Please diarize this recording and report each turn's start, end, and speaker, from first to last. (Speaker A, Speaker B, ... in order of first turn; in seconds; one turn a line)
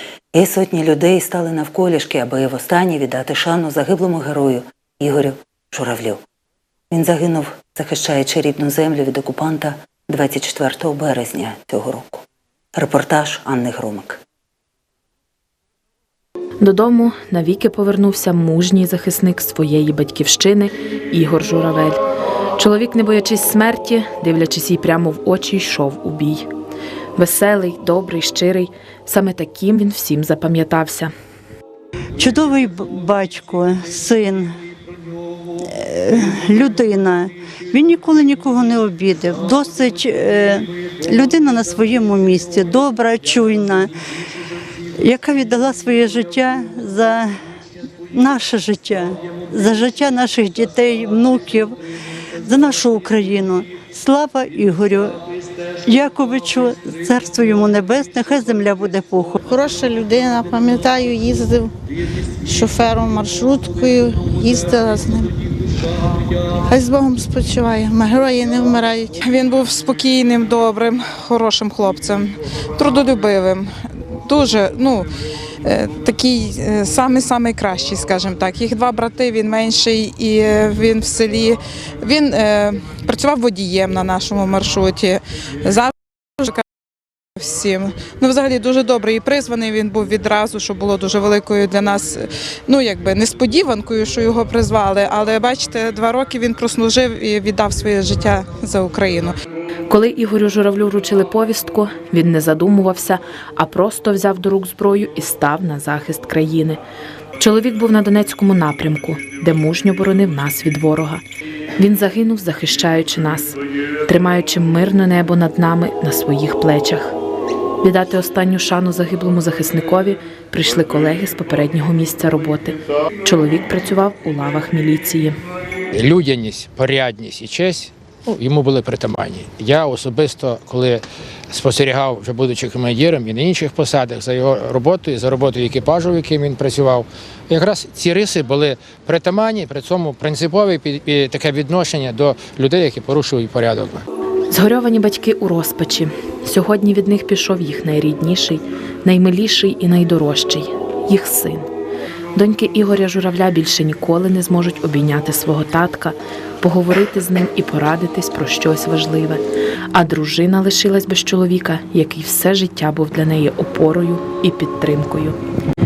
Speaker A: 0.3-6.2
Speaker A: 6.9-12.2
Speaker A: 12.8-14.2
Speaker B: 16.6-22.0
Speaker B: 22.6-26.5
Speaker B: 27.2-31.1
Speaker C: 32.2-34.5
Speaker C: 35.6-43.9
Speaker C: 45.0-47.3
Speaker C: 48.1-51.8
Speaker C: 52.4-55.2
Speaker C: 55.9-59.4
Speaker D: 59.5-61.7
Speaker D: 62.5-65.3
Speaker D: 66.7-69.2
Speaker E: 69.2-73.7
Speaker E: 74.3-75.1
Speaker E: 75.6-86.6
Speaker E: 87.4-99.4
Speaker B: 99.9-106.8
Speaker B: 107.4-111.2
Speaker B: 111.8-117.2
Speaker B: 117.8-125.4
Speaker F: 125.9-144.0
Speaker B: 144.5-151.7
Speaker B: 152.3-159.4
Speaker B: 159.9-165.4